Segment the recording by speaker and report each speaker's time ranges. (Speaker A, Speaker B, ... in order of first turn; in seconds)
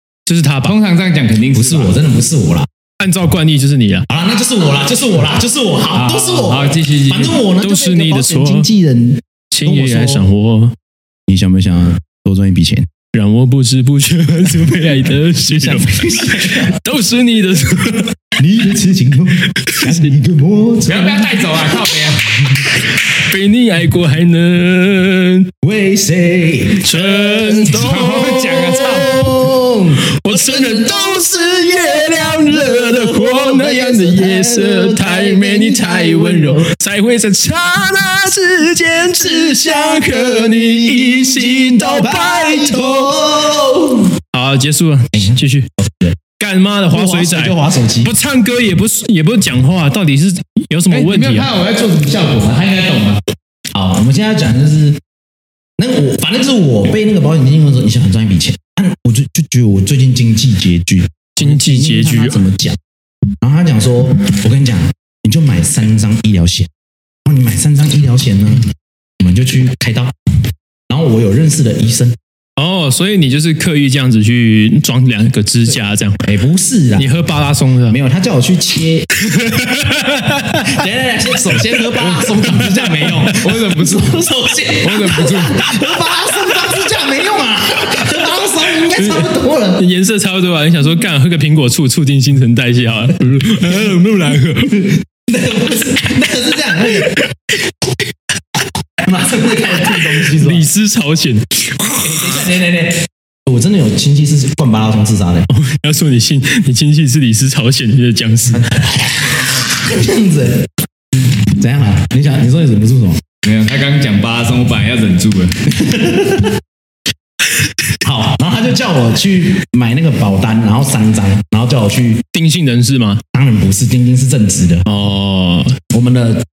Speaker A: 0.3-0.8, 3.0-4.1, 7.6-8.7, 9.5-10.7, 13.1-18.1, 19.5-20.1, 23.0-25.5, 26.8-29.4, 30.0-43.1, 44.3-45.7, 46.4-51.5, 61.4-62.4, 72.6-76.2, 77.0-78.0, 79.2-80.8, 82.4-82.9, 89.0-94.8, 100.3-102.3, 105.5-108.7, 122.3-123.2, 124.9-125.8
Speaker B: 0.7-1.9, 5.9-7.4, 20.9-22.4, 27.5-29.1, 50.9-53.2, 83.3-84.2, 84.8-85.7, 113.4-115.6
Speaker C: 1.5-2.7, 4.1-10.2, 11.3-12.9, 15.5-16.8, 18.4-21.5, 25.6-27.8, 28.9-36.7, 39.2-44.1, 45.1-46.2, 46.9-48.1, 53.7-55.0, 55.8-62.8, 63.4-66.7, 67.3-70.1, 70.9-72.2, 76.2-77.1, 77.9-79.1, 80.6-89.8, 94.5-97.2, 99.0-100.7, 102.0-105.5, 108.5-110.7, 111.4-113.2, 115.7-116.6, 118.0-122.2, 123.3-124.9, 125.9-126.5